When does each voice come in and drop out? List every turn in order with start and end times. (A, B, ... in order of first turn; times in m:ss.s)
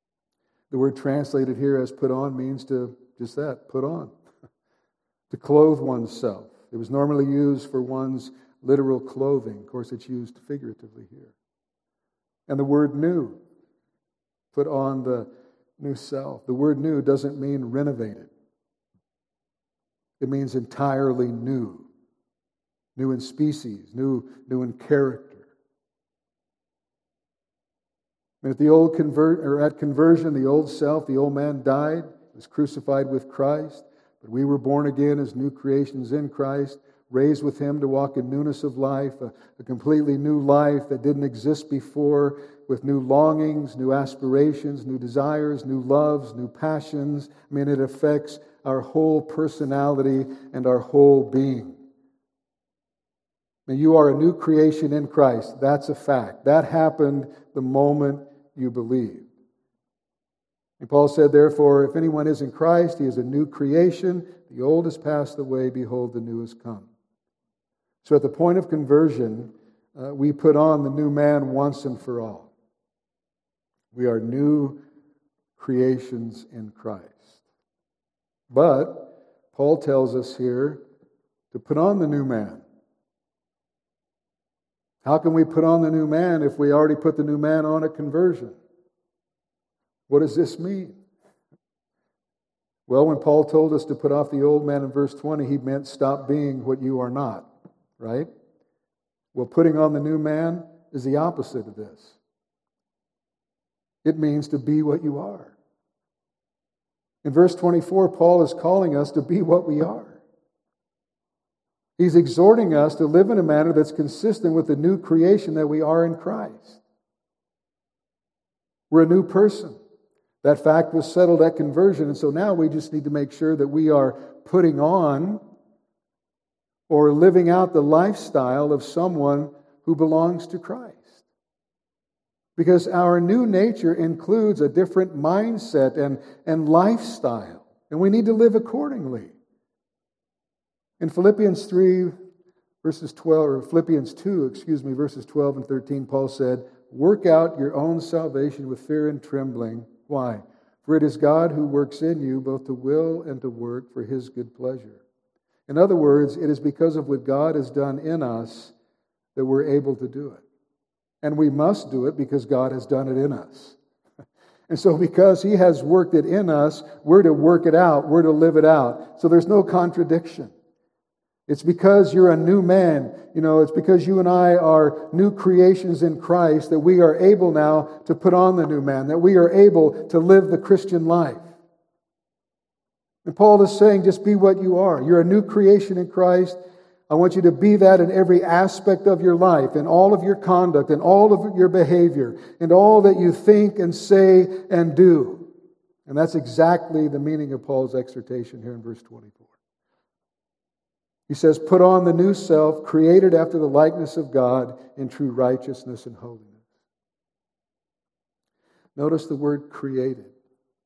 0:00.7-0:04.1 A
0:05.3-0:11.3 A
0:12.5-0:13.4 A
0:14.5-0:18.3 A
0:20.2-0:21.8 A
0:23.0-0:25.4 A
0:28.4-0:51.8 A
0:53.7-0:59.3 A
1:00.8-1:06.9 A
1:08.0-1:12.5 A
1:13.9-1:14.8 A
1:15.6-1:17.4 A
1:18.5-1:20.8 A
1:21.5-1:22.6 A
1:25.0-1:28.6 A
1:30.1-1:31.0 A
1:32.9-1:38.3 A
1:39.3-1:42.2 A
1:44.0-1:45.5 A
1:47.2-1:50.2 A
1:52.0-1:56.8 A
1:58.9-1:59.8 A
2:00.4-2:05.4 A
2:06.9-2:11.2 A
2:12.6-2:19.3 A
2:21.0-2:22.1 A
2:22.8-2:35.0 A
2:35.7-2:38.7 A
2:39.3-2:40.4 A
2:41.2-2:43.8 A
2:44.7-2:50.5 A
2:51.5-3:01.5 A
3:03.2-3:06.6 A
3:07.1-3:15.5 A
3:16.0-3:19.5 A
3:21.3-3:26.6 A
3:29.0-3:30.3 A